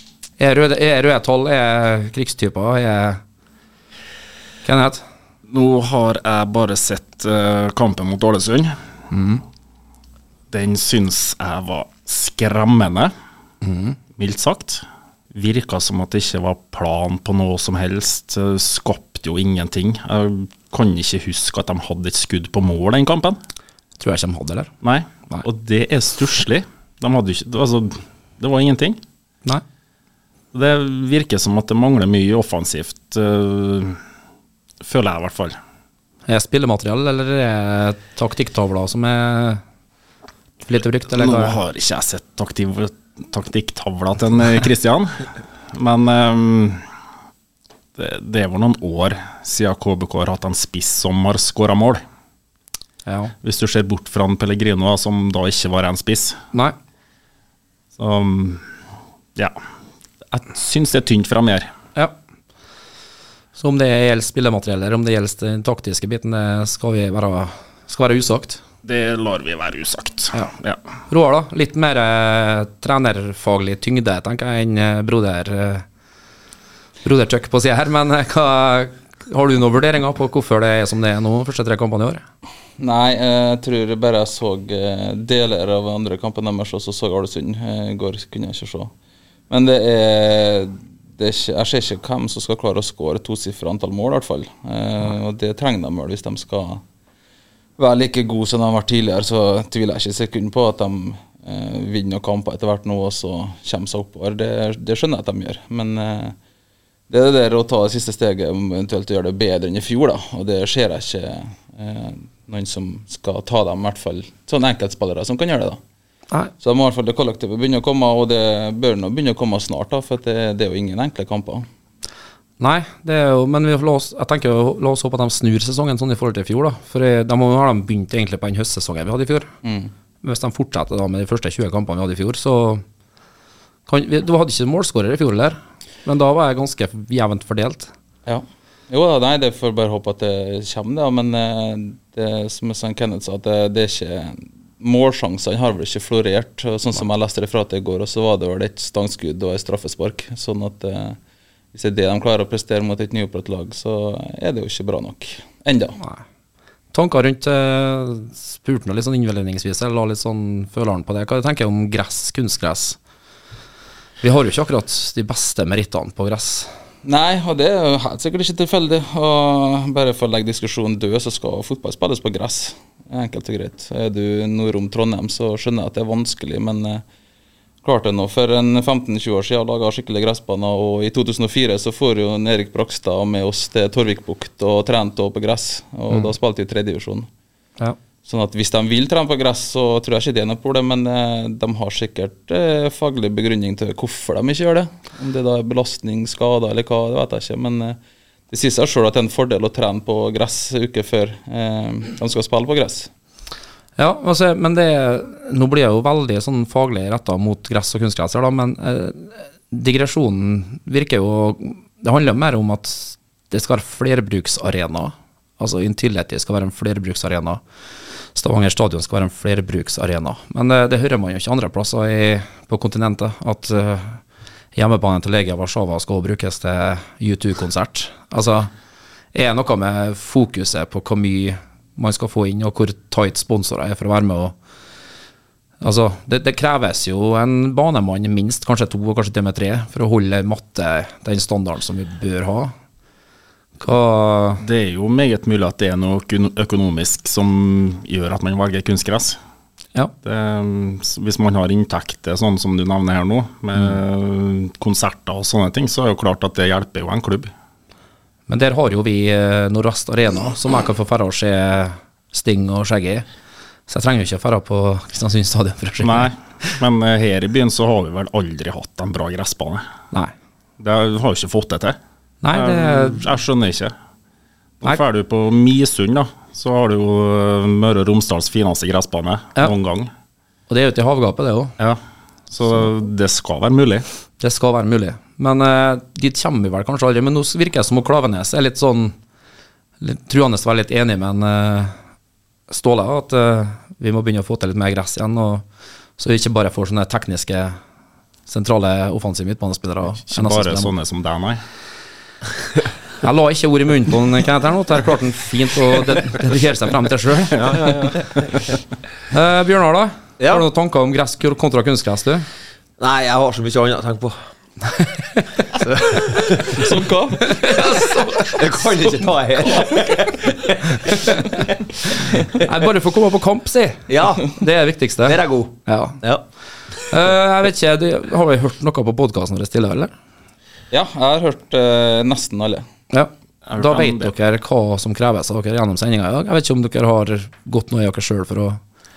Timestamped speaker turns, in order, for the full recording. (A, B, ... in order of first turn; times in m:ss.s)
0:00.4-0:03.2 A
0:04.6-0:05.0 A
0:05.5-0:08.7 B
0:09.1-0:09.4 A
0:10.5-0:13.1 B
0:13.6-0:14.0 A
0:14.2-0:23.4 B
0:24.0-0:24.7 A
0:24.8-0:29.0 B
0:30.5-0:34.0 B
0:34.8-0:35.6 B
0:36.3-0:39.6 A
0:40.6-0:41.6 A
0:41.1-0:46.8 B
0:48.0-0:52.0 B
0:53.1-0:53.3 A
0:53.4-0:56.4 B
0:58.0-0:58.6 B
1:00.3-1:01.7 B
1:03.6-1:08.6 A
1:08.8-1:10.8 B
1:11.1-1:15.8 A
1:17.0-1:22.2 A
1:22.8-1:28.9 C
1:29.5-1:36.8 C
1:37.8-1:46.4 C
1:47.1-1:55.8 C
1:56.6-2:01.7 C
2:02.6-2:09.5 A
2:09.6-2:09.9 C
2:10.2-2:12.8 A
2:13.9-2:17.9 A
2:18.3-2:31.2 C
2:31.7-2:36.0 C
2:36.9-2:43.0 A
2:44.2-2:46.7 A
2:47.0-2:57.0 C
2:57.8-3:07.3 C
3:08.2-3:18.0 C
3:18.5-3:23.1 C
3:24.0-3:37.6 A
3:38.4-3:44.2 A
3:44.7-3:48.7 A
3:49.3-3:54.6 A
3:55.8-4:02.7 A
4:03.8-4:04.6 A
4:04.6-4:09.4 B
4:10.2-4:17.5 B
4:18.5-4:23.2 A
4:23.9-4:26.3 A
4:26.0-4:29.9 B
4:30.8-4:32.0 B
4:32.4-4:33.3 A
4:32.5-4:33.9 B
4:34.8-4:40.1 B
4:40.7-4:41.7 A
4:42.5-4:44.0 B
4:44.4-4:49.2 A
4:50.0-4:52.0 A
4:52.7-4:55.6 A
4:56.2-4:57.8 A
4:58.5-5:00.9 A
5:00.3-5:01.6 B
5:03.2-5:07.9 A
5:07.5-5:08.7 B
5:09.3-5:12.4 A
5:10.4-5:10.6 D
5:13.0-5:14.4 D
5:14.9-5:15.8 A
5:15.8-5:16.8 D
5:16.5-5:17.7 C
5:17.4-5:19.0 A
5:18.4-5:22.6 D
5:21.1-5:21.4 A
5:22.5-5:26.2 A
5:24.1-5:24.5 D
5:25.2-5:26.4 D
5:27.1-5:30.1 A
5:30.9-5:32.9 C
5:33.1-5:38.8 A
5:33.7-5:34.3 B